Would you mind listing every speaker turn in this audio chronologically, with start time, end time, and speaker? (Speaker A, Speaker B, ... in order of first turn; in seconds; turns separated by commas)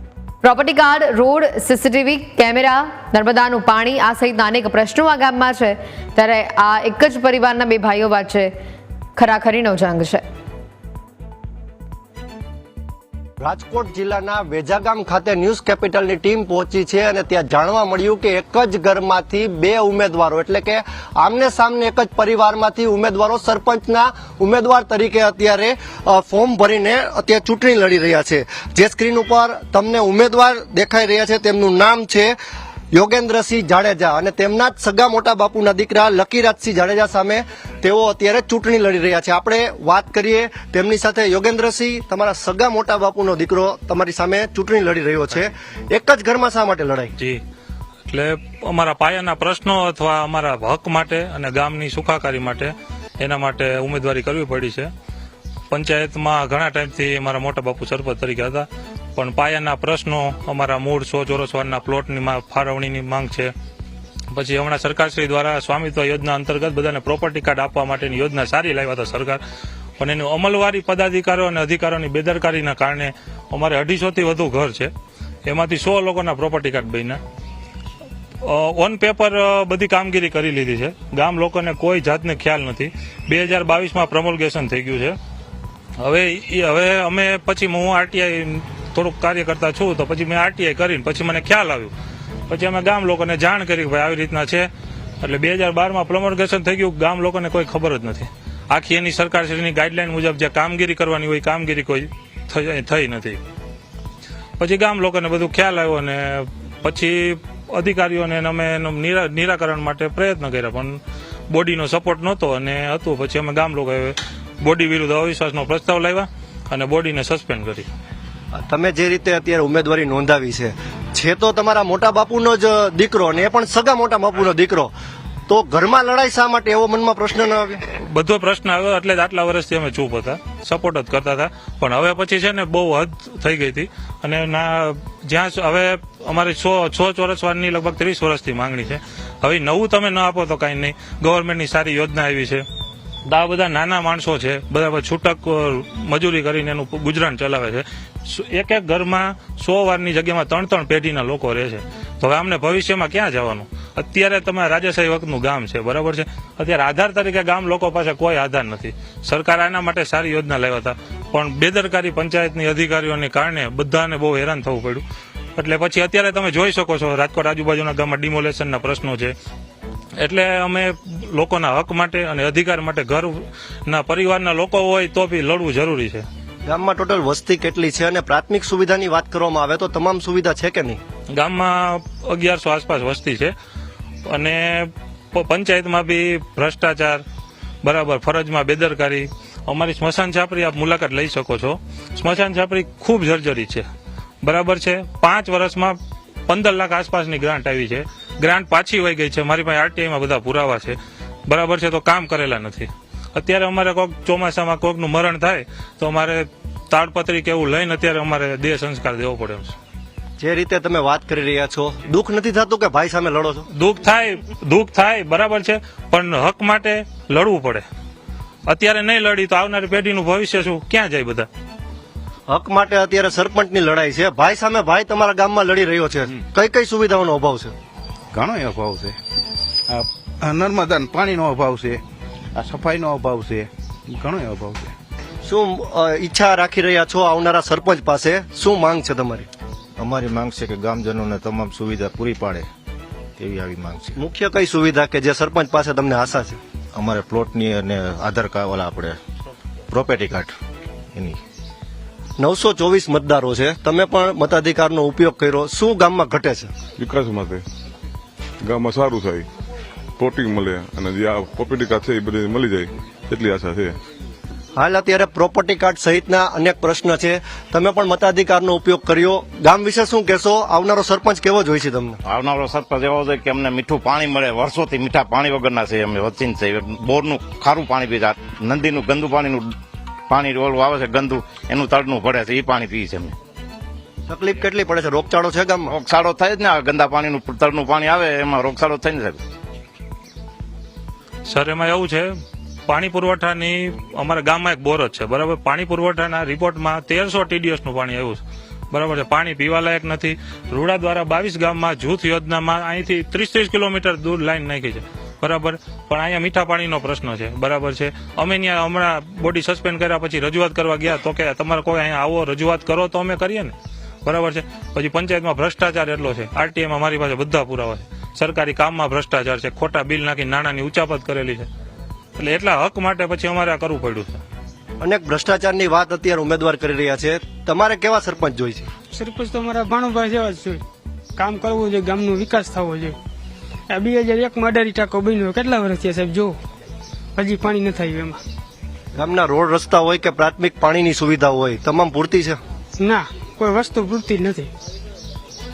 Speaker A: 0.4-8.5, Speaker A: 9.2-10.2, Speaker B: 13.4-32.4, Speaker B: 32.9-47.1, Speaker C: 48.1-54.9, Speaker C: 55.7-63.5, Speaker C: 64.3-69.4, Speaker C: 70.0-74.9, Speaker C: 75.5-77.2, Speaker C: 78.4-85.2, Speaker C: 86.0-91.9, Speaker C: 92.5-94.7, Speaker C: 95.2-103.4, Speaker C: 104.6-111.0, Speaker C: 111.5-117.9, Speaker B: 118.5-124.9, Speaker B: 125.5-127.8, Speaker C: 128.0-142.6, Speaker C: 143.3-165.0, Speaker C: 165.6-169.3, Speaker C: 170.2-176.2, Speaker B: 176.7-181.0, Speaker C: 181.3-183.5, Speaker C: 184.3-187.2, Speaker C: 187.8-193.9, Speaker C: 194.4-201.0, Speaker C: 201.5-209.8, Speaker B: 210.4-213.7, Speaker C: 213.8-217.8, Speaker C: 218.7-221.5, Speaker B: 222.5-227.7, Speaker D: 228.3-229.2, Speaker D: 229.9-232.0, Speaker D: 232.6-234.9, Speaker B: 235.4-239.5, Speaker E: 240.0-242.7, Speaker E: 243.4-244.2, Speaker B: 244.2-246.6, Speaker E: 246.9-249.2, Speaker E: 249.9-250.6, Speaker B: 252.4-256.7, Speaker F: 257.0-257.6, Speaker F: 258.6-259.5, Speaker F: 260.2-263.9, Speaker B: 264.8-272.2, Speaker E: 272.3-279.8, Speaker E: 280.3-283.4, Speaker B: 284.3-285.9, Speaker E: 285.9-289.4, Speaker C: 291.5-292.3, Speaker C: 292.9-321.7, Speaker C: 322.4-324.4, Speaker B: 325.0-328.9, Speaker G: 329.1-330.8, Speaker G: 331.4-333.2, Speaker G: 333.9-336.6, Speaker G: 337.4-338.4, Speaker B: 339.1-342.6, Speaker G: 343.0-344.7